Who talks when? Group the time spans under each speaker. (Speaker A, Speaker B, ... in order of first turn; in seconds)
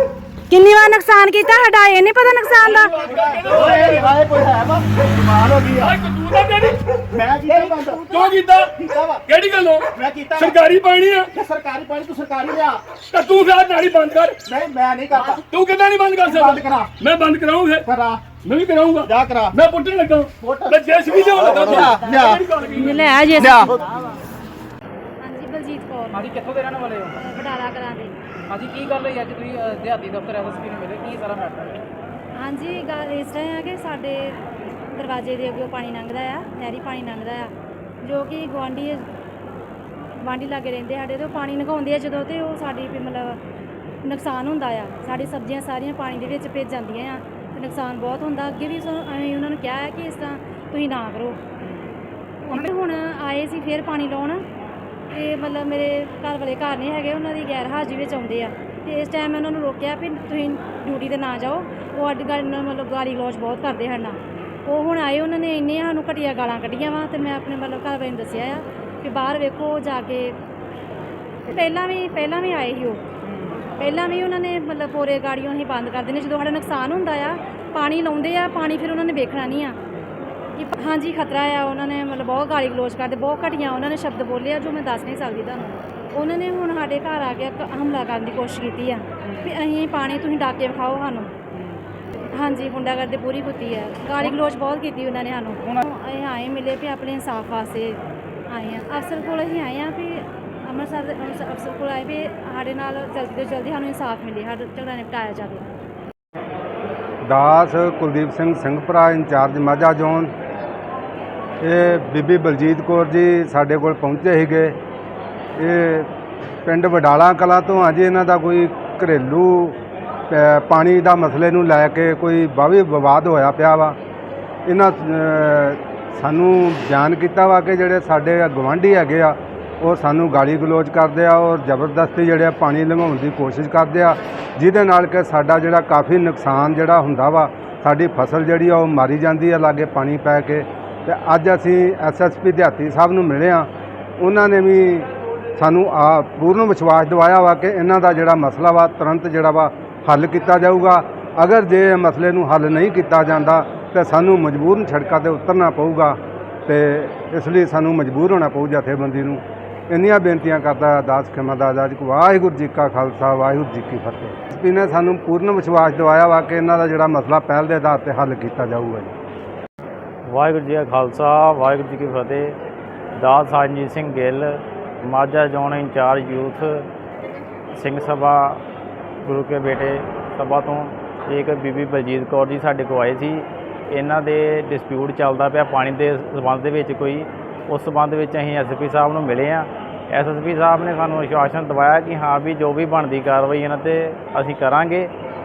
Speaker A: 0.5-2.9, 22.8-23.6, 25.2-26.3, 27.1-28.1, 32.4-37.5, 38.0-39.0, 40.2-43.4, 44.0-51.4, 52.5-54.4, 55.1-70.4, 71.5-73.0, 73.8-79.8, 80.5-91.3, 92.3-105.7
Speaker B: 2.7-4.2, 5.8-6.8, 8.0-11.3, 13.1-14.4, 15.3-23.3
Speaker C: 3.0-6.0, 7.1-9.2, 9.9-10.7, 11.3-12.8, 14.4-15.4, 16.2-16.9, 17.9-18.4, 19.0-19.6, 20.4-22.4, 23.4-23.8
Speaker D: 26.1-27.2, 28.5-31.9, 73.3-73.6, 89.2-89.5, 91.5-91.8
Speaker E: 107.3-110.3, 111.6-114.8, 115.6-116.1, 116.7-119.8, 120.3-124.0, 124.7-169.1
Speaker F: 170.3-172.6, 173.1-176.8, 177.7-178.6, 179.2-195.1